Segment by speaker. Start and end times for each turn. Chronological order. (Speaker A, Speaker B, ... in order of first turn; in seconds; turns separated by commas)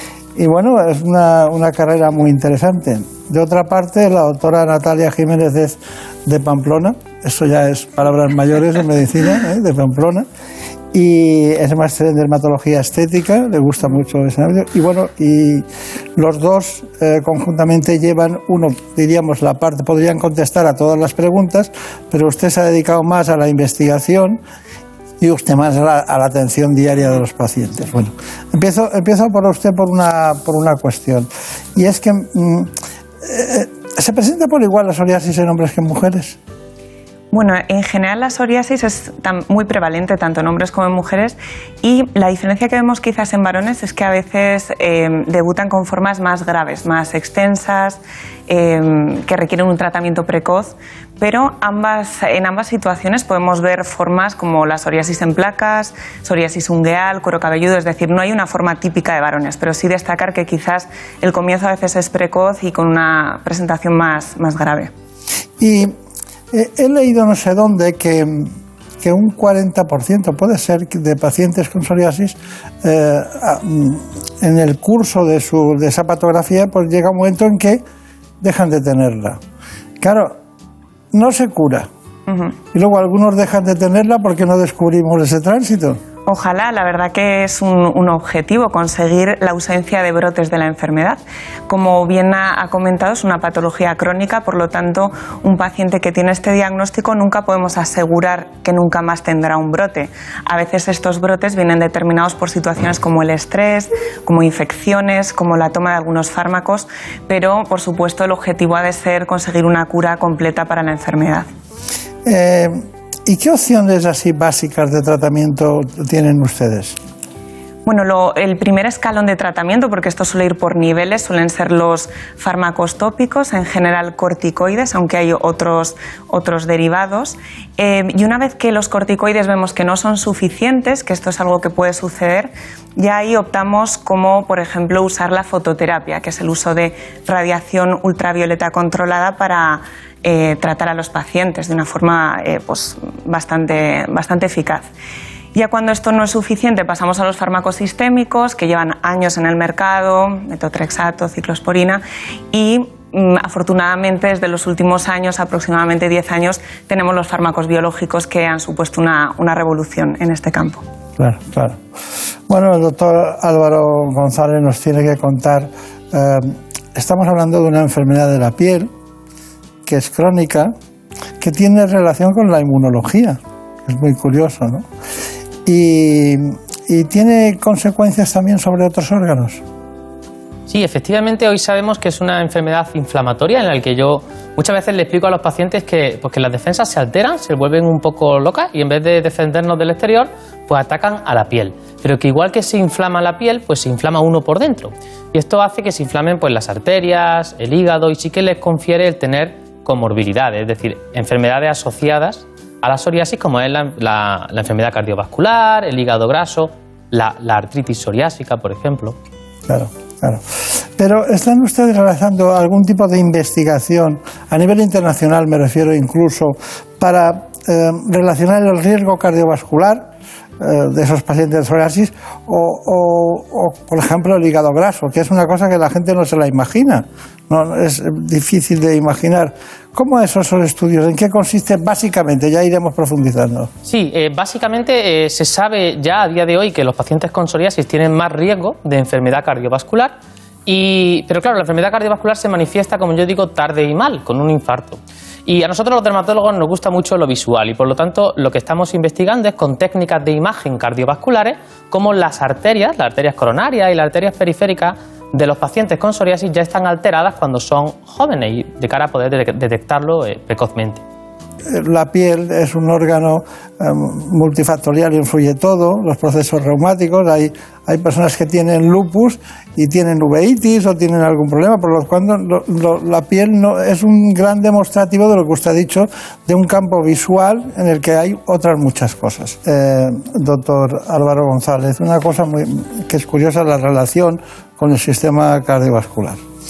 Speaker A: 0.3-10.3, Speaker A: 10.9-15.6, Speaker A: 16.1-24.4, Speaker A: 25.2-32.7, Speaker A: 33.2-36.4, Speaker B: 37.3-64.9, Speaker A: 65.6-65.9, Speaker A: 66.5-77.8, Speaker A: 78.4-79.4, Speaker A: 80.0-80.4, Speaker A: 81.1-81.9, Speaker B: 82.3-82.5, Speaker A: 82.7-86.0, Speaker B: 86.2-111.5, Speaker A: 112.2-117.0, Speaker B: 117.8-144.9, Speaker B: 145.5-160.8, Speaker A: 161.2-161.8, Speaker A: 162.5-168.9, Speaker A: 169.8-170.7, Speaker A: 171.4-174.8, Speaker A: 175.7-179.6, Speaker C: 180.7-209.2, Speaker A: 209.7-233.7, Speaker C: 233.8-261.0, Speaker A: 261.6-286.4